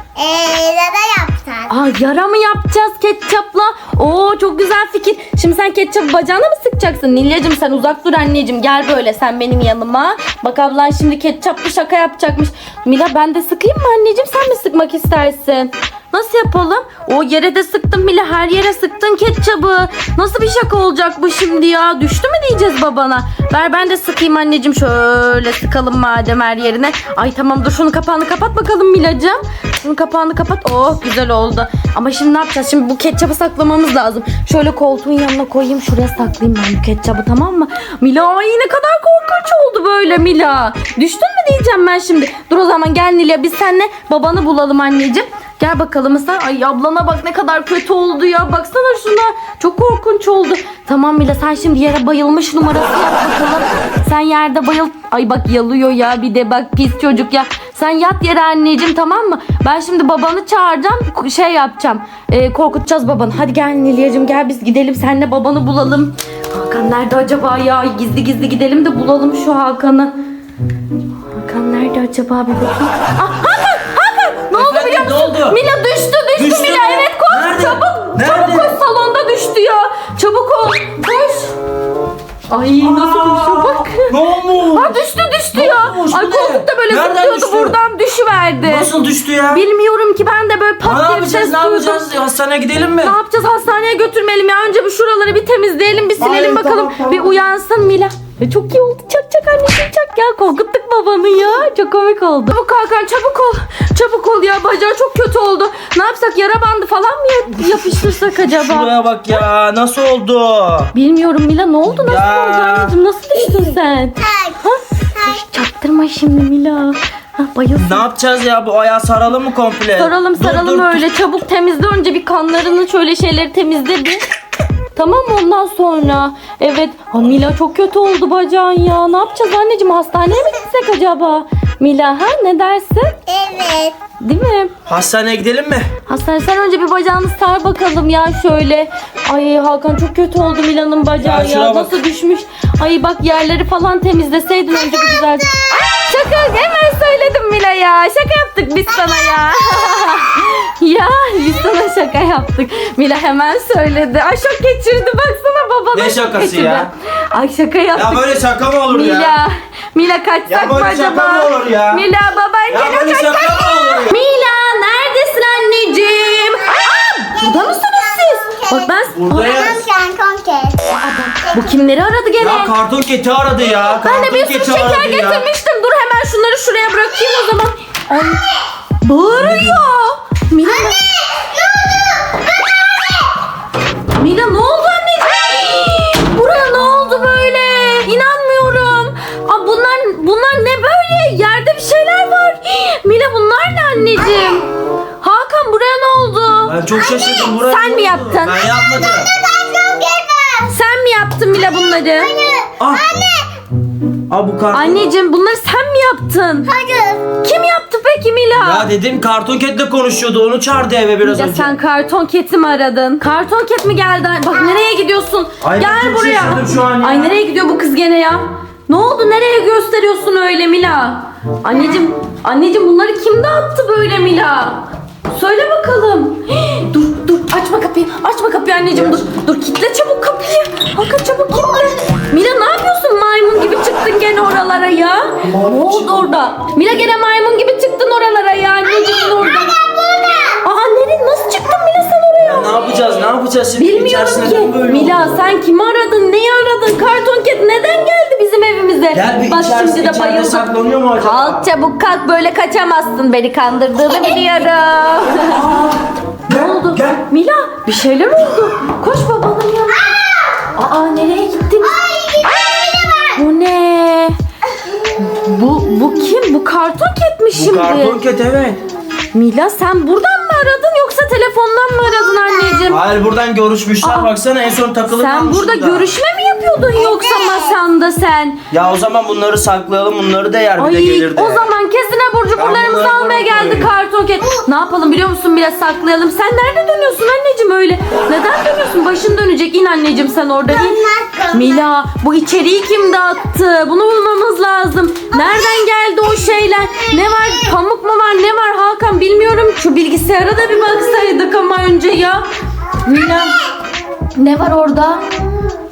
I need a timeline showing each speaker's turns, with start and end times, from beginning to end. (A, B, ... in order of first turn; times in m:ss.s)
0:00.2-0:01.7 A
0:01.7-1:10.1 B
1:11.3-1:21.5 B
1:14.5-1:15.6 C
1:16.4-1:18.8 C
1:22.5-1:24.1 B
1:22.8-1:27.8 C
1:24.7-1:28.9 B
1:28.6-1:29.6 C
1:29.5-1:32.0 B
1:30.8-1:33.2 C
1:33.0-1:49.4 B
1:36.2-1:37.3 C
1:48.5-1:50.9 C
1:50.9-1:58.1 B
1:51.9-1:52.9 C
1:54.2-1:54.6 A
1:57.8-2:01.0 C
2:00.0-2:04.2 B
2:05.0-2:13.1 B
2:13.3-2:13.9 A
2:14.2-2:14.7 B
2:14.9-2:15.9 C
2:16.1-2:25.5 B
2:21.2-2:21.9 C
2:24.8-2:25.8 A
2:26.0-2:43.3 B
2:28.9-2:30.3 A
2:35.9-2:36.9 C
2:37.9-2:39.4 C
2:40.5-2:42.0 C
2:42.7-2:44.2 C
2:42.8-2:44.0 A
2:44.1-2:49.6 B
2:47.4-2:50.8 A
2:49.1-2:49.8 C
2:50.8-2:52.7 B
2:52.4-2:55.4 C
2:54.0-2:58.4 B
2:59.0-3:01.0 B
2:59.3-2:59.8 C
3:00.6-3:03.3 A
3:04.2-3:14.7 B
3:14.2-3:14.6 A
3:15.2-3:16.8 B
3:16.7-3:19.3 C
3:16.9-3:17.6 A
3:17.6-3:18.6 B
3:18.5-3:20.7 A
3:20.7-3:22.3 B
3:21.5-3:23.6 A
3:24.3-3:25.0 C
3:24.7-3:26.7 B
3:26.7-3:27.3 A
3:27.4-3:28.9 B
3:28.6-3:31.8 C
3:31.2-3:59.7 B
3:35.6-3:37.3 C
3:41.7-3:42.0 A
3:48.9-3:49.2 C
3:51.5-3:51.9 A
3:55.4-3:56.2 C
3:58.9-4:00.6 A
4:00.6-4:02.7 B
4:02.4-4:05.2 C
4:03.8-4:10.7 B
4:09.1-4:11.6 C
4:11.2-4:15.7 B
4:14.1-4:14.4 A
4:15.5-4:17.2 C
4:16.5-4:20.1 B
4:19.9-4:20.3 A
4:20.7-4:22.0 B
4:21.8-4:23.4 A
4:23.3-4:24.3 B
4:25.2-4:28.2 B
4:27.5-4:28.8 C
4:29.3-4:33.0 B
4:32.1-4:32.9 A
4:32.9-4:36.1 C
4:34.0-4:34.3 B
4:35.1-4:38.6 B
4:36.9-4:37.8 A
4:38.7-4:41.6 C
4:40.8-4:51.0 B
4:42.6-4:43.9 C
4:50.7-4:51.8 A
4:51.5-5:02.4 B
4:55.3-4:55.6 A
5:03.0-5:03.6 B
5:03.1-5:03.5 A
5:04.3-5:05.2 B